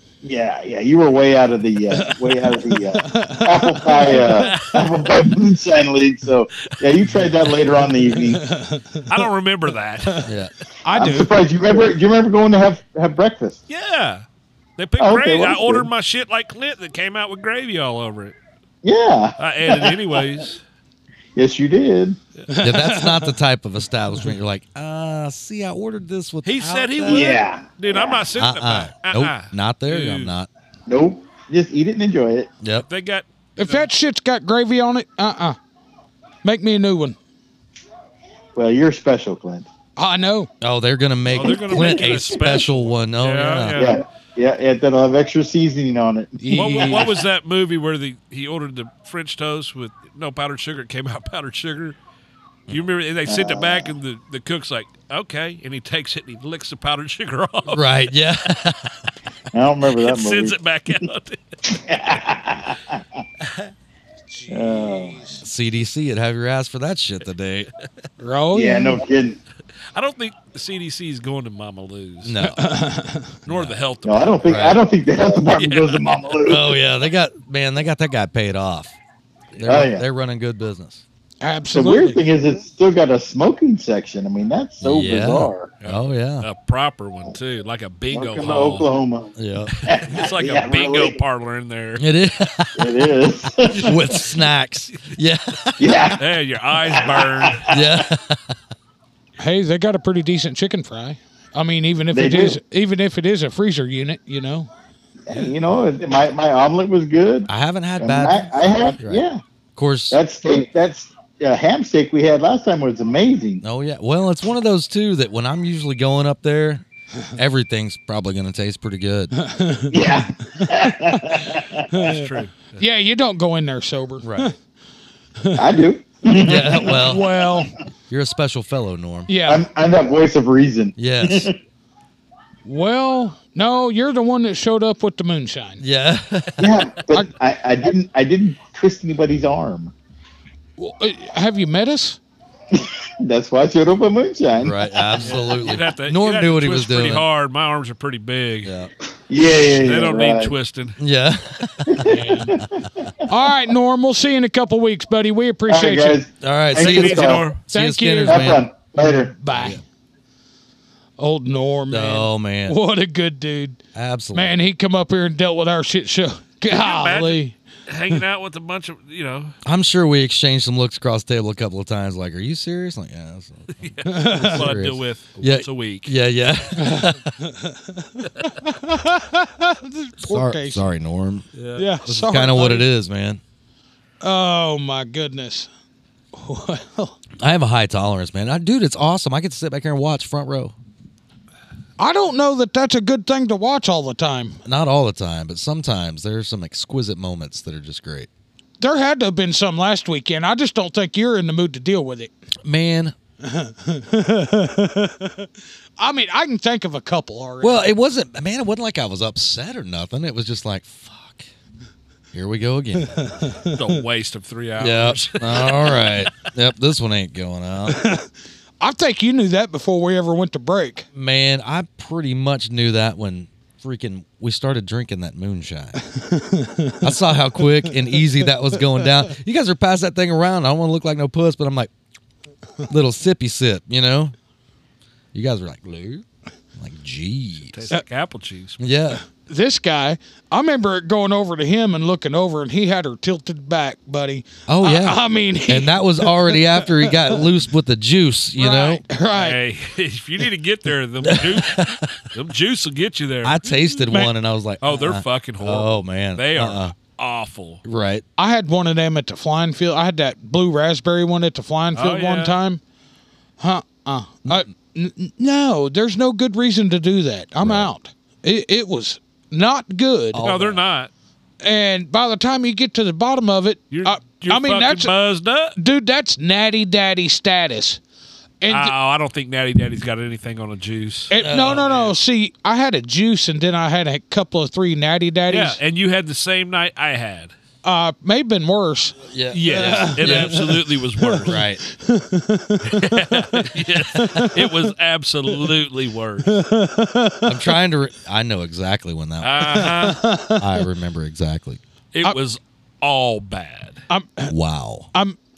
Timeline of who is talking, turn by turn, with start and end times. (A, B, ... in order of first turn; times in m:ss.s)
0:00.2-0:08.4 A
0:01.9-0:04.2 B
0:04.4-0:05.1 C
0:08.3-0:09.1 B
0:09.1-0:10.3 C
0:10.2-0:10.5 D
0:10.8-0:11.3 B
0:10.9-0:13.6 A
0:13.7-0:14.2 C
0:14.8-0:18.4 C
0:15.0-0:15.9 A
0:18.8-0:20.2 A
0:19.4-0:20.6 C
0:21.4-0:22.2 A
0:22.5-0:23.4 B
0:22.6-0:27.4 D
0:26.4-0:30.3 C
0:27.1-0:28.2 A
0:28.4-0:30.5 D
0:30.9-0:32.5 A
0:32.6-0:32.9 D
0:32.8-0:33.9 C
0:33.6-0:35.6 B
0:36.4-0:37.2 B
0:38.5-0:39.7 A
0:40.0-0:40.5 B
0:40.6-0:43.8 D
0:41.3-0:44.0 C
0:41.4-0:42.6 A
0:43.7-0:47.0 A
0:46.4-0:47.1 B
0:46.6-0:52.0 C
0:52.7-0:57.8 C
0:53.3-0:53.9 A
0:57.7-0:58.9 D
0:59.5-1:00.6 A
0:59.9-1:01.4 C
1:01.7-1:03.2 A
1:04.4-1:05.4 B
1:04.5-1:05.2 A
1:05.4-1:07.7 D
1:08.2-1:09.0 B
1:08.5-1:09.4 A
1:09.9-1:12.4 C
1:12.2-1:12.7 D
1:12.6-1:13.4 B
1:13.4-1:14.4 C
1:13.5-1:13.8 D
1:14.0-1:16.8 A
1:14.5-1:14.8 D
1:15.5-1:16.2 C
1:16.4-1:19.0 D
1:19.5-1:21.0 D
1:19.6-1:20.0 A
1:21.4-1:22.2 B
1:21.7-1:25.7 A
1:24.8-1:26.5 D
1:25.8-1:28.9 C
1:28.1-1:31.2 A
1:29.4-1:29.7 D
1:29.8-1:32.0 C
1:32.0-1:33.0 D
1:32.8-1:34.2 A
1:33.7-1:34.2 C
1:33.8-1:36.1 D
1:35.8-1:36.2 A
1:36.2-1:37.7 C
1:36.8-1:38.0 A
1:37.7-1:38.5 D
1:39.4-1:44.7 B
1:42.1-1:42.6 A
1:45.3-1:49.4 A
1:47.5-1:49.2 D
1:49.8-1:50.2 D
1:50.1-1:53.6 A
1:53.6-1:59.3 D
1:59.4-1:59.9 B
1:59.9-2:02.0 A
2:01.9-2:04.5 B
2:02.0-2:02.8 C
2:04.2-2:04.5 D
2:05.6-2:07.2 A
2:06.4-2:07.3 D
2:06.5-2:07.7 B
2:08.1-2:09.3 D
2:09.3-2:09.6 B
2:09.5-2:11.6 A
2:11.0-2:11.5 D
2:12.6-2:15.8 B
2:15.8-2:16.8 D
2:16.6-2:19.9 A
2:20.8-2:22.2 B
2:22.7-2:24.8 A
2:24.6-2:27.2 D
2:25.2-2:28.7 C
2:28.6-2:28.9 D
2:29.3-2:30.5 A
2:29.6-2:31.0 C
2:31.0-2:32.7 D
2:31.9-2:33.2 A
2:32.0-2:32.5 B
2:33.3-2:36.2 B
2:35.7-2:37.4 A
2:36.4-2:38.6 D
2:36.8-2:37.6 C
2:37.7-2:39.8 B
2:38.2-2:39.3 A
2:39.5-2:39.8 D
2:41.2-2:43.8 B
2:41.9-2:42.8 D
2:43.9-2:44.5 D
2:44.3-2:47.6 B
2:46.7-2:49.5 C
2:49.6-2:57.3 D
2:53.7-2:56.1 C
2:54.0-2:54.6 B
2:56.8-3:00.8 B
3:00.2-3:01.5 D
3:01.5-3:01.8 C
3:01.8-3:02.9 B
3:02.0-3:03.4 D
3:04.2-3:05.7 B
3:06.3-3:07.2 B
3:07.4-3:10.8 D
3:12.0-3:14.6 B
3:14.6-3:18.3 D
3:18.8-3:22.3 B
3:22.6-3:23.1 D
3:23.4-3:25.5 B
3:26.0-3:27.9 B
3:27.6-3:31.5 D
3:32.3-3:33.4 D
3:33.0-3:33.9 B
3:33.7-3:36.3 C
3:34.8-3:38.1 D
3:37.9-3:38.3 B
3:38.8-3:41.0 B
3:41.1-3:46.0 D
3:46.0-3:47.1 B
3:47.0-3:51.9 D
3:47.6-3:48.2 B
3:52.9-3:54.3 D
3:55.3-3:56.2 D
3:56.8-3:57.9 D
3:57.7-3:58.8 C
3:58.8-3:59.2 D
3:59.3-4:07.4 B
4:04.7-4:09.0 D
4:08.6-4:09.6 B
4:09.3-4:14.0 C
4:11.2-4:12.1 D
4:13.4-4:16.9 D
4:14.8-4:17.8 C
4:17.8-4:18.2 D
4:18.4-4:22.8 B
4:21.9-4:22.6 C
4:23.6-4:30.4 B
4:27.6-4:27.9 D
4:30.3-4:30.8 D
4:30.4-4:31.1 C
4:31.6-4:35.1 B
4:33.9-4:35.8 C
4:35.8-4:38.0 B
4:38.6-4:38.9 B
4:38.7-4:42.1 C
4:41.3-4:45.8 B
4:41.4-4:41.9 D
4:45.5-4:47.5 C
4:47.8-4:49.2 B
4:49.3-4:50.8 D
4:49.5-4:51.6 C
4:49.7-4:53.6 B
4:51.4-4:51.8 D
4:52.9-4:56.6 C
4:54.1-4:54.8 B
4:54.2-4:54.4 D
4:56.5-4:57.8 B
4:57.4-5:00.0 D
4:59.4-5:00.2 C
4:59.7-5:00.9 B
5:00.5-5:01.8 D
5:02.1-5:04.0 C
5:04.1-5:04.5 B
5:04.5-5:05.1 D